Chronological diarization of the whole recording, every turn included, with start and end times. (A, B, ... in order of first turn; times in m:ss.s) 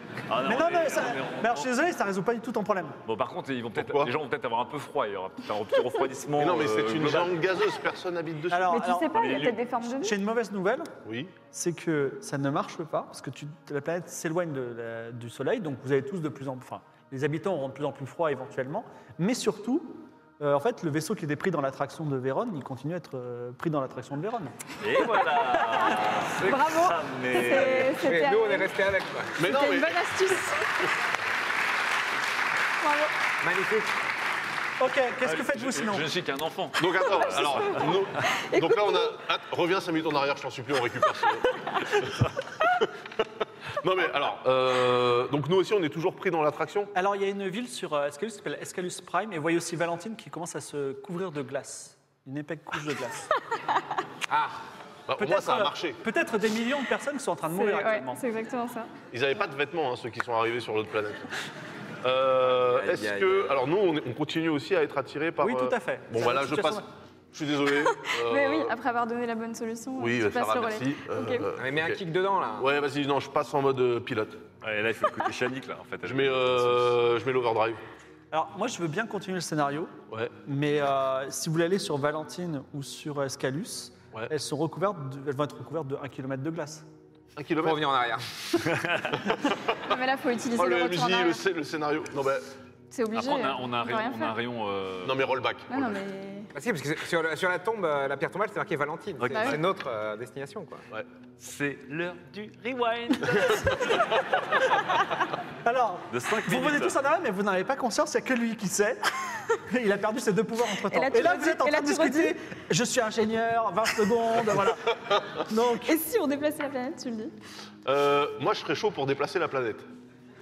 0:00.3-0:01.7 A
0:00.4-0:03.0 B
0:03.1-0:07.4 A
0:03.8-0:04.1 C
0:06.4-0:08.7 C
0:08.5-0:10.9 B
0:08.7-0:10.2 D
0:09.1-0:09.6 A
0:11.0-0:11.3 C
0:11.5-0:24.6 B
0:24.8-0:28.0 A
0:25.7-0:28.7 D
0:27.5-0:29.4 E
0:29.4-0:30.0 C
0:29.4-0:30.9 D
0:32.8-0:33.1 D
0:33.4-0:33.9 E
0:34.8-0:36.1 B
0:35.2-0:37.9 A
0:36.8-0:42.3 C
0:37.1-0:39.2 D
0:41.5-0:41.9 D
0:42.8-0:43.2 C
0:43.8-0:46.9 C
0:47.0-0:53.3 B
0:54.3-0:54.6 E
0:55.1-0:56.0 C
0:55.2-0:58.2 B
0:57.5-0:58.9 D
0:59.1-1:01.3 C
1:02.0-1:08.7 C
1:02.5-1:03.6 E
1:05.4-1:06.8 B
1:08.0-1:11.5 D
1:10.0-1:12.0 C
1:11.6-1:12.7 E
1:12.6-1:14.4 C
1:14.6-1:17.0 A
1:16.0-1:17.8 C
1:18.3-1:26.9 B
1:27.4-1:27.8 C
1:27.6-1:28.2 E
1:28.8-1:29.1 A
1:29.2-1:29.8 C
1:29.8-1:31.4 D
1:30.6-1:32.5 C
1:32.9-1:34.3 D
1:33.1-1:35.3 A
1:35.0-1:36.0 C
1:35.7-1:36.5 D
1:36.5-1:40.9 E
1:39.2-1:39.6 A
1:39.3-1:39.6 D
1:41.4-1:44.7 A
1:45.6-1:56.0 B
1:46.1-1:47.0 A
1:50.9-1:52.4 D
1:55.8-1:57.3 D
1:57.8-1:59.8 C